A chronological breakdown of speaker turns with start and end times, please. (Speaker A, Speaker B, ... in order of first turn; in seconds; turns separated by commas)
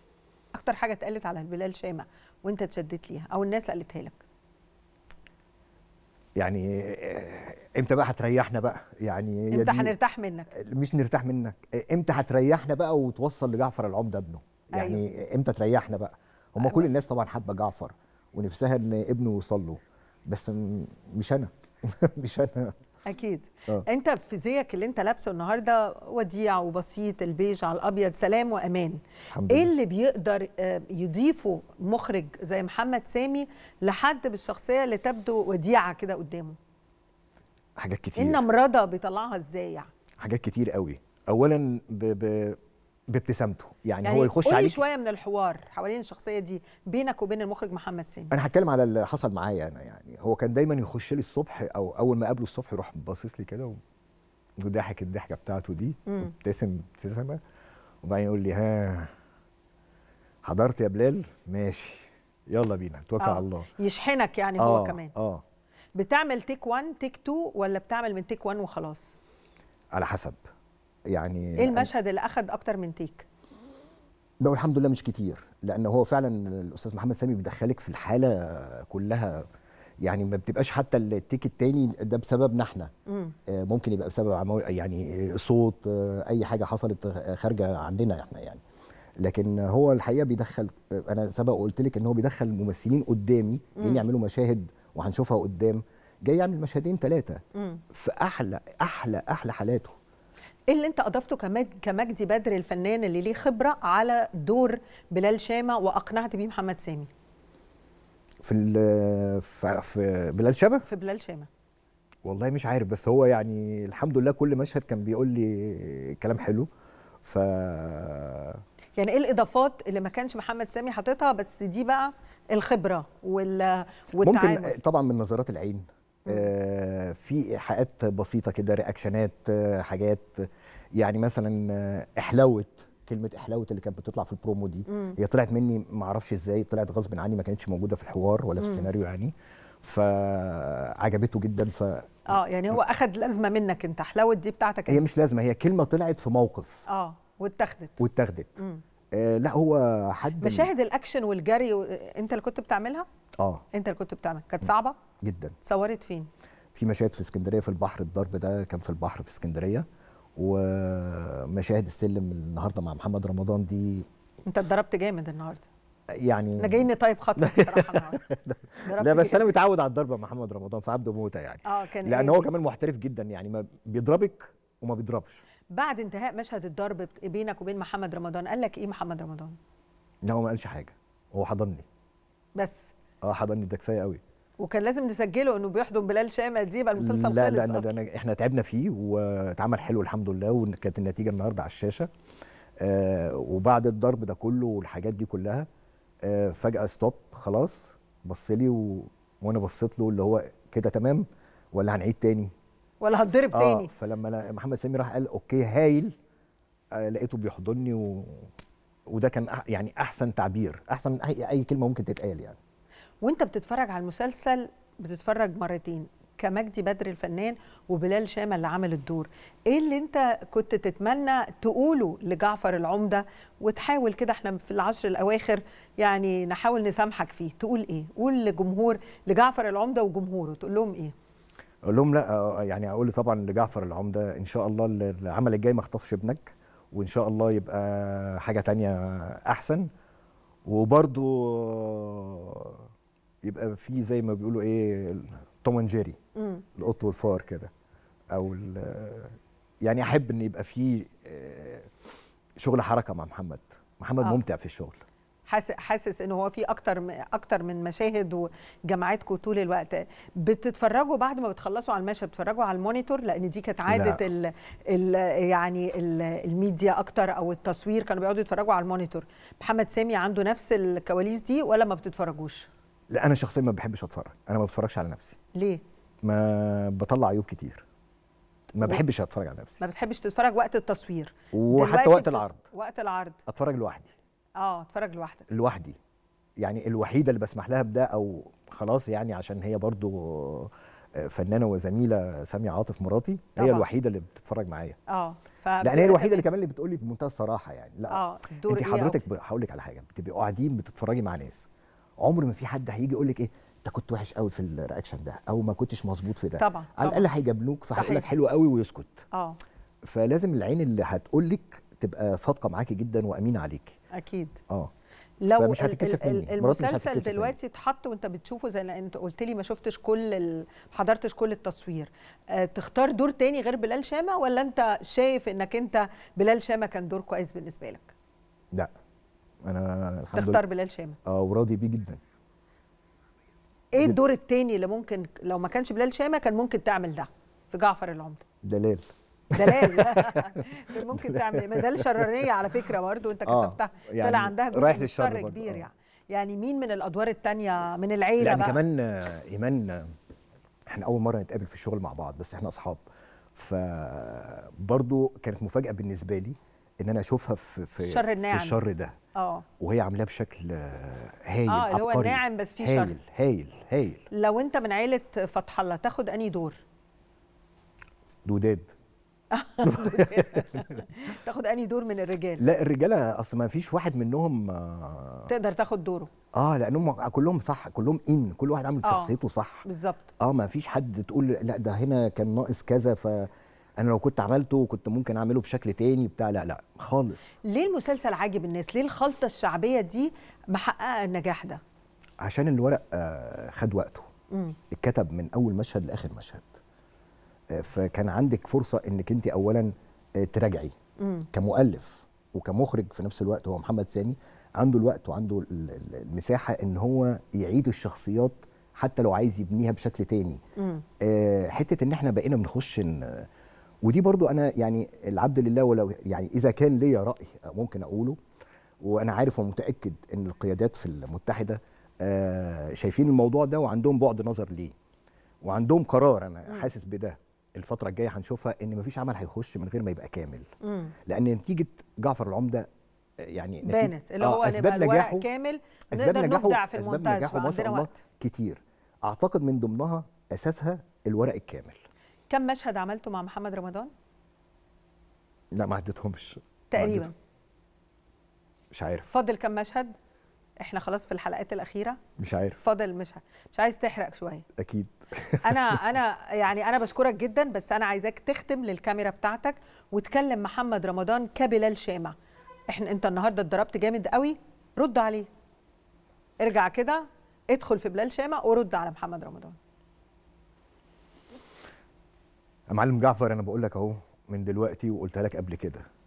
Speaker A: 0.6-4.2, Speaker B: 6.4-9.9, Speaker A: 9.5-10.5, Speaker B: 10.5-22.7, Speaker A: 14.8-15.0, Speaker A: 16.6-16.9, Speaker A: 23.1-29.0, Speaker B: 29.3-29.7, Speaker A: 29.5-36.6, Speaker B: 37.8-38.4, Speaker A: 38.2-39.9, Speaker B: 40.2-42.6, Speaker B: 43.1-44.8, Speaker A: 44.0-48.3, Speaker B: 48.3-53.8, Speaker B: 54.6-57.4, Speaker B: 58.0-59.1, Speaker B: 60.5-63.7, Speaker A: 63.2-65.1, Speaker B: 64.6-65.4, Speaker A: 66.0-69.1, Speaker B: 70.0-70.4, Speaker B: 71.1-71.9, Speaker A: 71.6-73.3, Speaker B: 74.4-79.5, Speaker B: 80.0-82.9, Speaker A: 83.1-83.3, Speaker B: 83.5-88.6, Speaker B: 89.2-97.4, Speaker A: 93.8-94.0, Speaker A: 97.6-97.8, Speaker B: 97.9-100.0, Speaker A: 100.7-107.1, Speaker B: 108.4-110.8, Speaker A: 110.8-111.5, Speaker B: 112.2-116.7, Speaker B: 117.2-118.6, Speaker A: 119.0-124.8, Speaker B: 124.2-130.5, Speaker B: 131.0-142.8, Speaker A: 134.9-135.2, Speaker A: 138.6-138.9, Speaker A: 142.3-145.0, Speaker B: 144.9-146.8, Speaker A: 146.9-148.0, Speaker B: 148.0-148.6, Speaker B: 149.1-150.7, Speaker A: 150.4-153.1, Speaker A: 153.7-155.0, Speaker B: 155.2-155.6, Speaker A: 155.6-156.3, Speaker B: 156.8-159.9, Speaker B: 160.4-164.1, Speaker A: 164.4-165.7, Speaker B: 166.2-175.4, Speaker A: 166.6-168.2, Speaker A: 168.9-169.5, Speaker A: 171.7-172.5, Speaker A: 175.7-179.6, Speaker B: 180.2-181.8, Speaker A: 182.6-182.9, Speaker B: 183.2-184.2, Speaker A: 184.6-187.9, Speaker B: 187.0-192.1, Speaker B: 192.8-195.7, Speaker B: 196.2-202.5, Speaker A: 203.0-203.9, Speaker B: 203.5-206.1, Speaker B: 207.0-208.5, Speaker B: 209.1-212.6, Speaker A: 213.2-231.1, Speaker B: 231.9-239.9, Speaker B: 240.7-242.8, Speaker B: 243.4-246.2, Speaker A: 246.4-246.6, Speaker B: 246.8-247.7, Speaker B: 248.3-251.9, Speaker B: 252.6-255.0, Speaker A: 255.5-272.7, Speaker B: 263.9-264.2, Speaker B: 273.1-275.4, Speaker A: 275.6-275.8, Speaker B: 276.2-277.8, Speaker B: 278.7-279.8, Speaker A: 279.8-283.4, Speaker B: 281.5-282.6, Speaker B: 283.5-284.1, Speaker A: 284.6-285.5, Speaker B: 285.5-286.0, Speaker B: 286.6-295.0, Speaker A: 293.6-293.9, Speaker A: 295.1-296.4, Speaker B: 295.8-301.7, Speaker A: 298.1-299.2, Speaker B: 302.2-309.2, Speaker A: 306.6-307.3, Speaker A: 307.9-308.3, Speaker A: 309.3-309.6, Speaker B: 310.1-314.0, Speaker A: 314.1-314.6, Speaker A: 315.4-328.1, Speaker B: 315.5-317.6, Speaker B: 329.6-330.6, Speaker A: 330.3-331.2, Speaker B: 331.3-332.2, Speaker A: 333.9-338.4, Speaker B: 338.6-342.3, Speaker A: 339.6-348.8, Speaker B: 343.4-345.9, Speaker B: 348.4-350.1, Speaker B: 350.9-353.0, Speaker B: 353.6-359.1, Speaker A: 358.0-358.8, Speaker A: 359.4-359.6, Speaker B: 359.8-364.3, Speaker A: 361.7-363.1, Speaker A: 364.3-366.8, Speaker B: 368.4-368.9, Speaker A: 369.5-372.6, Speaker B: 369.8-370.9, Speaker B: 372.6-375.5, Speaker A: 375.5-376.3, Speaker B: 376.6-379.9, Speaker A: 379.0-379.3, Speaker A: 379.9-380.3, Speaker B: 380.4-387.4, Speaker A: 387.7-391.8, Speaker B: 392.4-394.3, Speaker B: 394.9-396.7, Speaker B: 397.7-400.9, Speaker A: 401.2-401.5, Speaker B: 401.5-410.6, Speaker A: 410.8-411.0, Speaker B: 411.2-413.5, Speaker B: 414.0-418.4, Speaker B: 419.0-424.9, Speaker B: 425.6-430.6, Speaker A: 430.8-431.1, Speaker B: 431.3-432.9, Speaker B: 433.4-435.5, Speaker A: 433.8-438.2, Speaker B: 436.1-442.0, Speaker A: 442.5-444.1, Speaker B: 445.7-447.3, Speaker A: 446.9-447.3, Speaker B: 448.9-449.3, Speaker A: 449.3-450.1, Speaker A: 450.8-452.2, Speaker B: 452.4-452.8, Speaker A: 452.7-454.6, Speaker B: 454.8-456.0, Speaker A: 455.6-462.3, Speaker A: 462.9-465.5, Speaker A: 466.6-469.8, Speaker B: 472.9-476.0